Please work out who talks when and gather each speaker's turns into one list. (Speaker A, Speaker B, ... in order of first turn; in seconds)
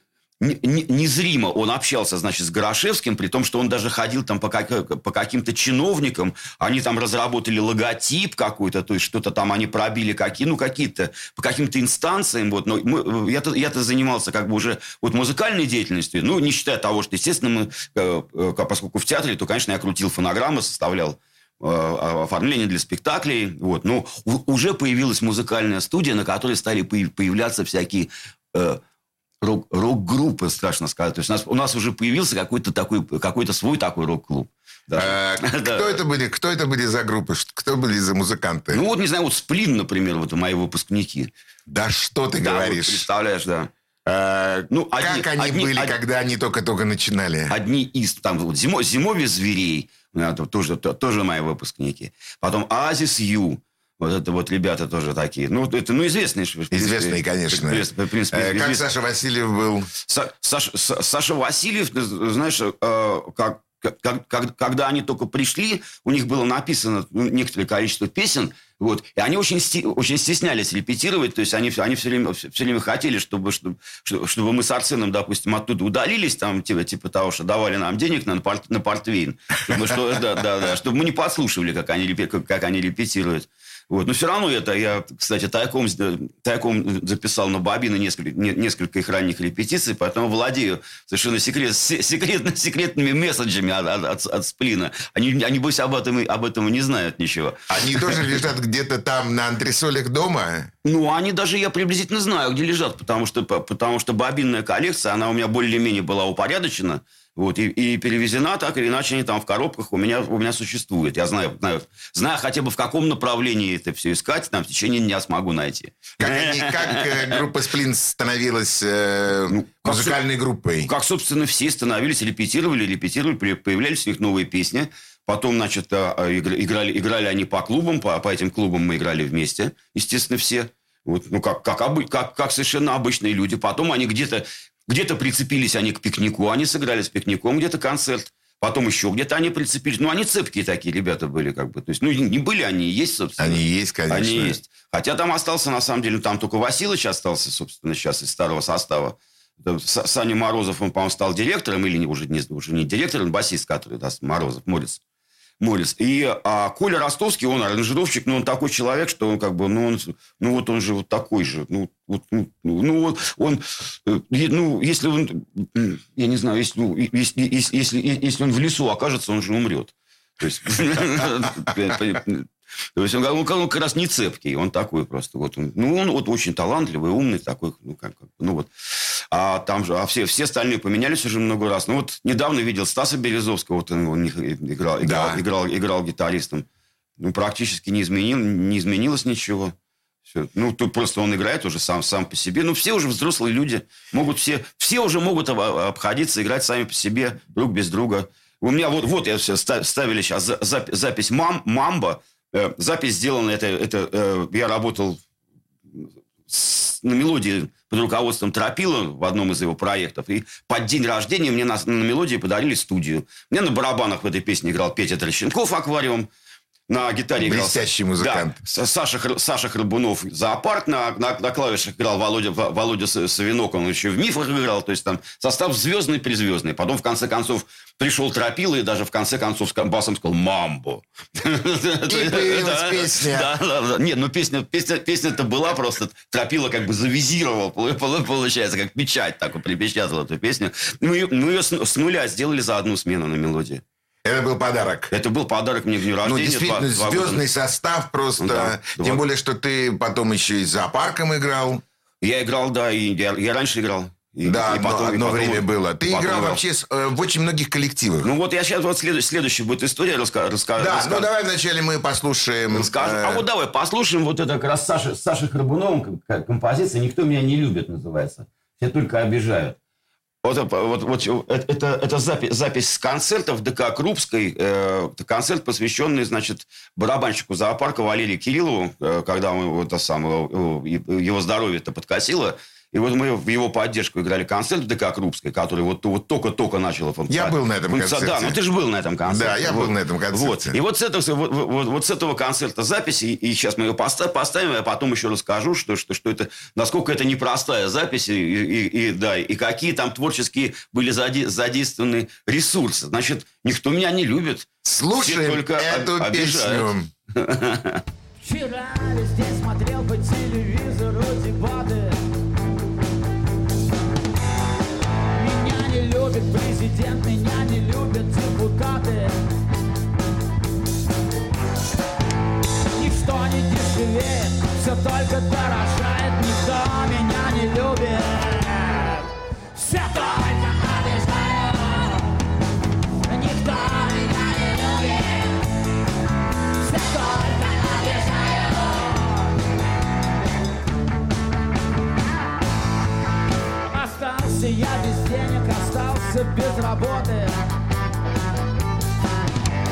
Speaker A: 0.4-28.8, 29.4-36.0, 38.7-41.3, 42.4-43.7, 44.7-46.0, 47.5-58.8, 60.1-98.2, 100.8-117.4, 119.5-120.2, 120.8-155.0, 155.6-178.7, 179.3-186.7, 187.2-189.7, 190.3-205.2, 205.9-216.3, 216.9-243.8, 245.1-247.4, 248.4-249.2, 252.2-256.6, 258.2-261.3, 262.7-269.8, 270.4-304.7, 305.2-308.0
Speaker B: 35.0-38.8, 41.7-43.1, 44.1-47.5, 56.7-59.9, 97.7-100.7, 116.2-120.9, 143.4-144.6, 185.0-185.4, 217.4-218.6, 232.1-233.5, 244.2-245.1, 246.2-251.8, 254.4-258.3, 260.8-263.4, 287.3-288.6, 289.3-290.8, 304.8-307.1
Speaker C: 308.4-312.2, 315.3-319.4, 322.9-332.4, 333.3-335.6, 336.8-339.5, 343.9-347.6